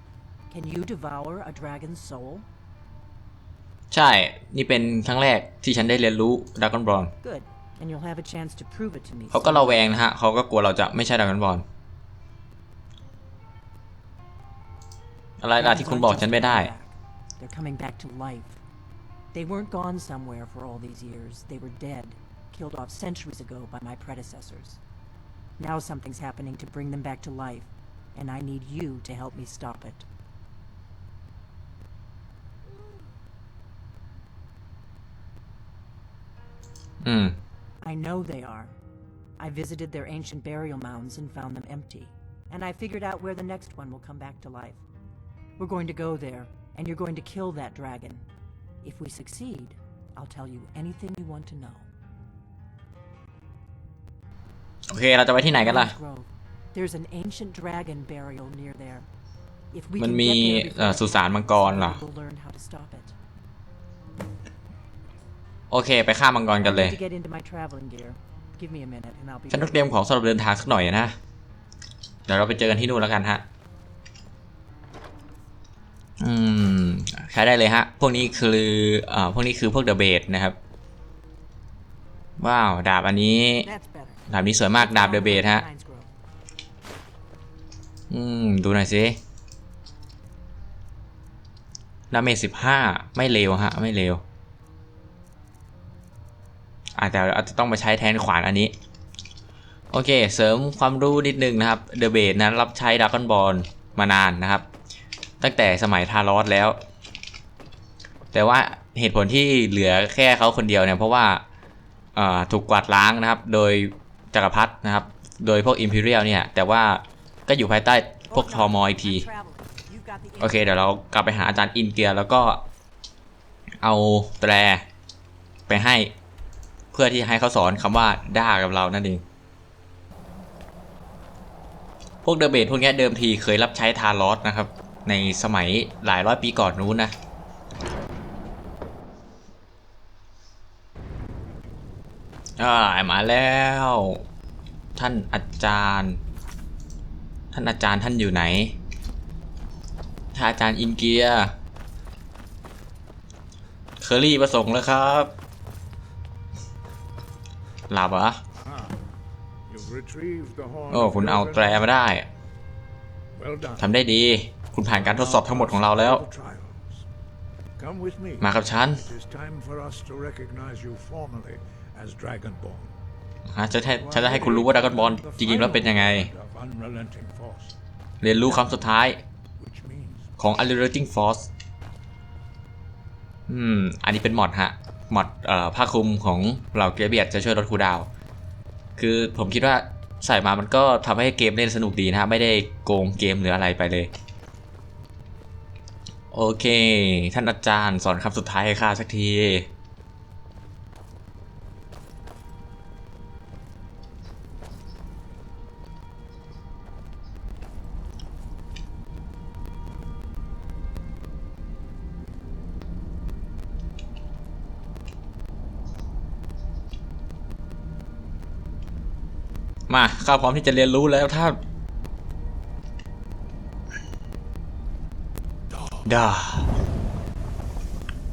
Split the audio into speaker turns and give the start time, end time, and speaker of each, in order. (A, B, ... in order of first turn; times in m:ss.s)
0:00.5-0:02.4 A
0:03.9-0:07.1 B
0:07.2-0:09.9 A
0:09.3-0:11.6 B
0:15.4-0:16.7 B
0:15.6-0:18.6 A
0:19.3-0:24.8 A
0:25.6-0:30.1 A
0:37.0-0:37.4 B
0:37.8-0:38.8 A
0:39.4-0:44.8 A
0:45.6-0:48.2 A
0:48.8-0:51.9 A
0:54.9-0:55.9 B
0:55.4-0:59.1 A
0:59.7-1:03.1 A
1:00.0-1:02.0 B
1:05.7-1:07.0 B
1:06.6-1:09.9 A
1:09.5-1:11.2 B
1:12.3-1:13.4 B
1:16.2-1:20.6 B
1:22.4-1:23.7 B
1:23.6-1:26.1 A
1:24.3-1:25.6 B
1:28.1-1:29.2 B
1:32.1-1:34.2 B
1:37.0-1:38.7 B
1:39.9-1:44.6 B
1:45.4-1:46.8 B
1:48.3-1:51.4 B
1:52.2-1:59.2 B
1:58.3-2:00.8 A
2:00.4-2:02.6 B
2:03.8-2:04.8 B
2:05.7-2:06.1 B
2:06.9-2:09.2 B
2:12.2-2:17.1 B
2:22.6-2:24.2 B
2:25.0-2:26.2 B
2:27.5-2:28.8 B
2:30.3-2:31.5 B
2:34.0-2:35.3 B
2:37.9-2:38.4 B
2:38.6-2:39.0 C
2:39.7-2:41.9 C
2:40.9-2:42.3 B
2:43.3-2:43.9 C
2:43.8-2:46.2 B
2:44.9-2:47.0 C
2:47.8-2:52.9 C
2:48.4-2:49.0 B
2:53.5-2:56.3 B
2:54.0-2:57.8 C
2:58.2-2:59.2 B
2:59.6-3:00.3 C
3:00.4-3:01.5 B
3:03.5-3:08.1 B
3:09.0-3:14.1 B
3:16.3-3:19.7 B
3:39.9-3:41.6 B
3:45.7-3:46.0 C
3:46.0-3:46.7 B